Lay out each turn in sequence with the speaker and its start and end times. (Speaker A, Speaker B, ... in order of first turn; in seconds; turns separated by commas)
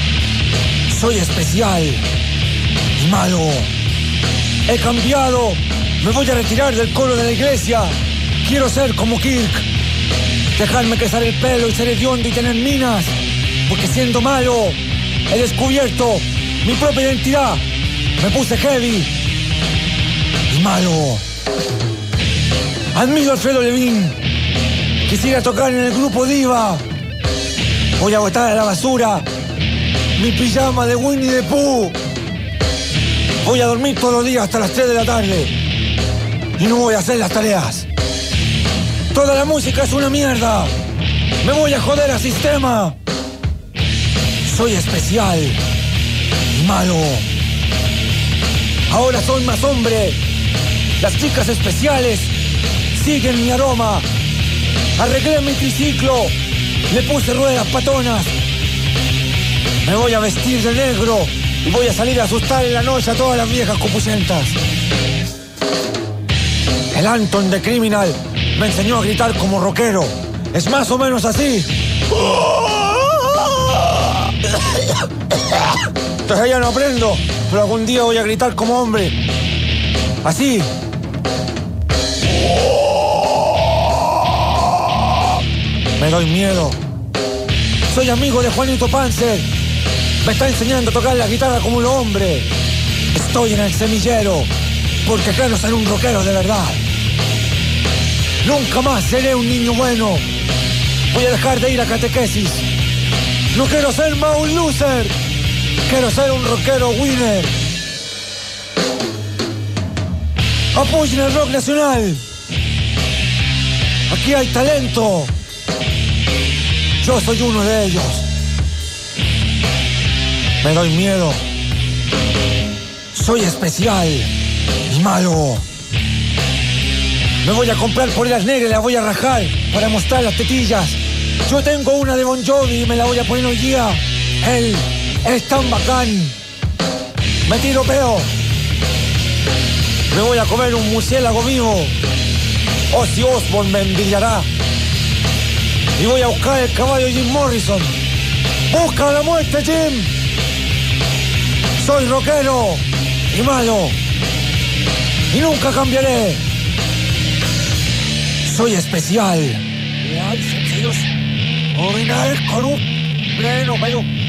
Speaker A: 0.9-2.0, Speaker A: 3.0-3.7, Speaker A: 4.7-9.7, Speaker A: 10.6-13.1, Speaker A: 13.7-17.6, Speaker A: 18.2-19.1, Speaker A: 20.5-21.2, Speaker A: 22.9-24.2, Speaker A: 25.1-26.8, Speaker A: 28.0-29.3, Speaker A: 30.2-32.0, Speaker A: 33.4-35.5, Speaker A: 36.6-37.9, Speaker A: 39.1-40.7, Speaker A: 41.4-43.0, Speaker A: 44.4-45.6, Speaker A: 46.5-47.3, Speaker A: 48.9-50.2, Speaker A: 51.0-52.3, Speaker A: 52.9-54.1, Speaker A: 55.0-56.3, Speaker A: 56.9-58.4, Speaker A: 59.8-64.6, Speaker A: 66.9-71.7, Speaker A: 76.2-79.2, Speaker A: 80.2-80.7, Speaker A: 86.0-86.8, Speaker A: 87.9-89.5, Speaker A: 90.2-92.5, Speaker A: 93.1-94.5, Speaker A: 95.0-96.8, Speaker A: 98.4-100.2, Speaker A: 101.1-102.7, Speaker A: 103.5-105.1, Speaker A: 105.8-107.5, Speaker A: 110.7-112.2, Speaker A: 114.1-115.3, Speaker A: 117.0-118.3, Speaker A: 120.6-121.4, Speaker A: 123.1-124.3, Speaker A: 124.9-125.6, Speaker A: 127.4-136.3, Speaker A: 137.4-138.3, Speaker A: 140.1-141.9, Speaker A: 142.9-144.5, Speaker A: 146.0-148.0, Speaker A: 148.7-150.1, Speaker A: 151.8-154.0, Speaker A: 155.3-156.4, Speaker A: 158.4-161.1, Speaker A: 161.7-164.1